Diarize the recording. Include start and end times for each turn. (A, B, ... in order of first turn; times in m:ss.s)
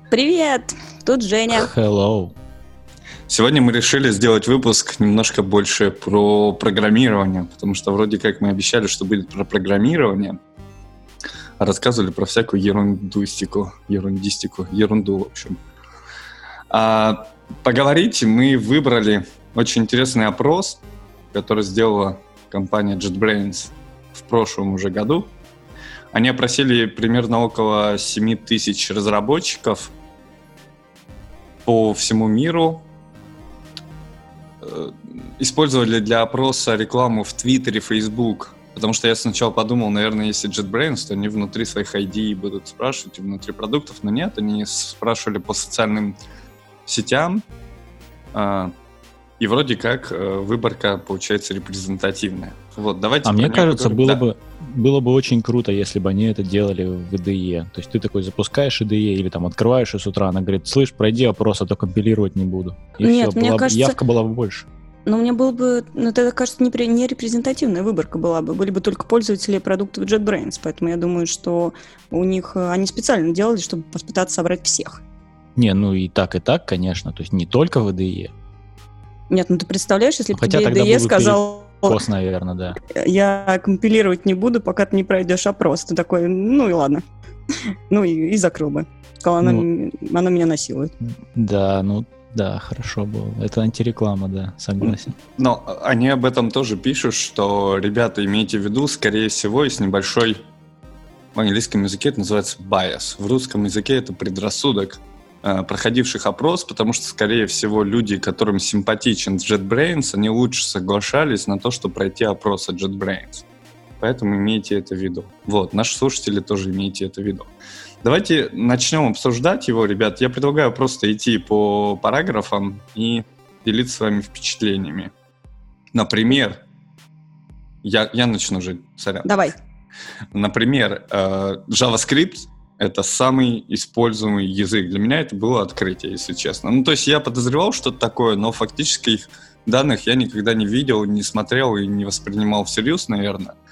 0:00.1-0:01.7 A
0:01.5-0:02.3 B
0:03.3-0:10.4 C
0:11.6-0:15.6 C
0:16.7-0:20.8 C
0:21.3-0:25.3 C
0:26.1-0:29.9 C
0:31.7-0:32.8 C
0:34.6-0:46.2 C
0:46.8-0:47.4 C
0:48.3-0:48.7 C
0:49.4-0:54.2 C
0:53.2-1:04.7 B
1:03.0-1:04.0 A
1:05.1-1:15.0 A
1:15.6-1:18.3 B
1:19.3-1:22.0 A
1:20.3-1:22.8 B
1:22.8-1:27.0 A
1:27.7-1:30.9 A
1:31.3-1:35.1 B
1:34.8-1:40.5 C
1:41.4-1:53.4 C
1:54.0-1:57.5 C
1:58.0-2:05.1 C
2:05.9-2:06.6 C
2:07.8-2:09.3 C
2:09.2-2:09.5 A
2:10.3-2:23.6 C